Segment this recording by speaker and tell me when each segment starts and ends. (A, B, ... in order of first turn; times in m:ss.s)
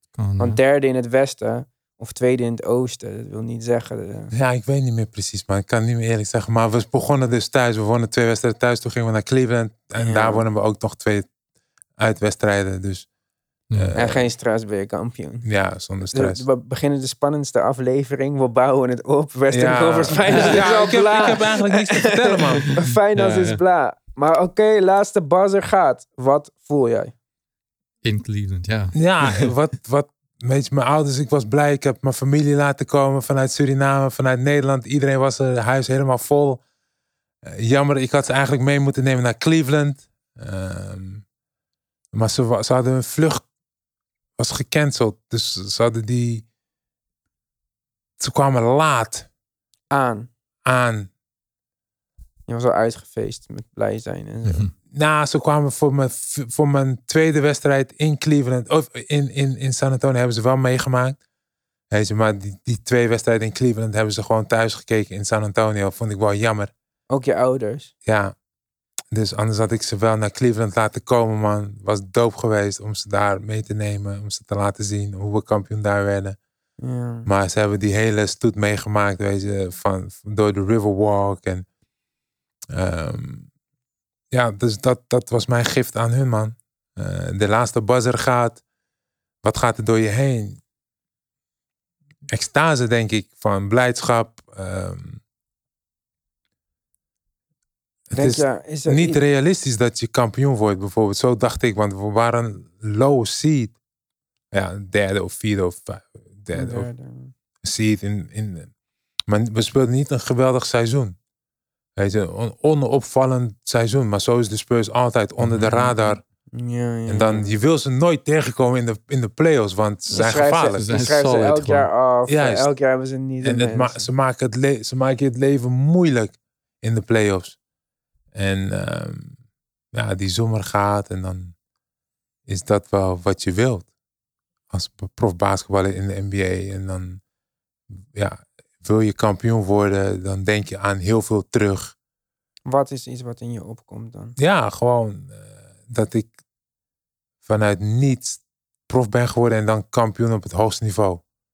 0:00.1-0:00.6 A
0:00.4-0:04.3 B
0:04.3-0:11.3 C
0:10.0-0:10.4 B
0:12.0-0:13.0 C
0:13.7-0:14.2 C
0:13.9-0:15.4 B
0:15.4-0:16.4 C
0:16.1-0:27.1 B
0:19.5-0:22.8 C
0:20.3-0:20.8 A
0:23.1-0:23.6 A
0:28.0-0:29.5 A
0:28.9-0:36.6 C
0:37.4-0:41.2 C
0:42.1-0:43.4 C
0:44.4-0:46.4 C
0:48.2-0:49.3 C
0:49.9-0:50.3 B
0:50.6-0:51.1 C
0:52.5-0:54.7 B
0:54.9-1:01.2 C
1:01.9-1:06.7 C
1:07.1-1:07.9 B
1:08.0-1:08.3 C
1:09.1-1:16.4 C
1:16.8-1:17.3 B
1:17.2-1:21.6 C
1:22.7-1:23.5 C
1:24.3-1:28.6 C
1:29.4-1:30.6 C
1:32.3-1:35.2 C
1:38.1-1:43.7 C
1:38.1-1:39.2 B
1:44.5-1:46.9 C
1:46.5-1:47.3 B
1:47.6-1:48.7 C
1:49.3-1:51.2 C
1:52.0-1:56.2 C
1:55.4-1:56.1 A
1:56.5-1:57.5 B
1:57.1-2:00.9 C
2:00.1-2:01.9 A
2:00.1-2:04.1 B
2:02.3-2:02.7 C
2:03.4-2:07.6 C
2:08.3-2:09.3 C
2:09.9-2:11.5 C
2:12.5-2:13.9 C
2:14.7-2:17.2 C
2:18.1-2:21.9 C
2:22.6-2:24.3 B
2:24.4-2:26.3 C
2:27.4-2:31.2 C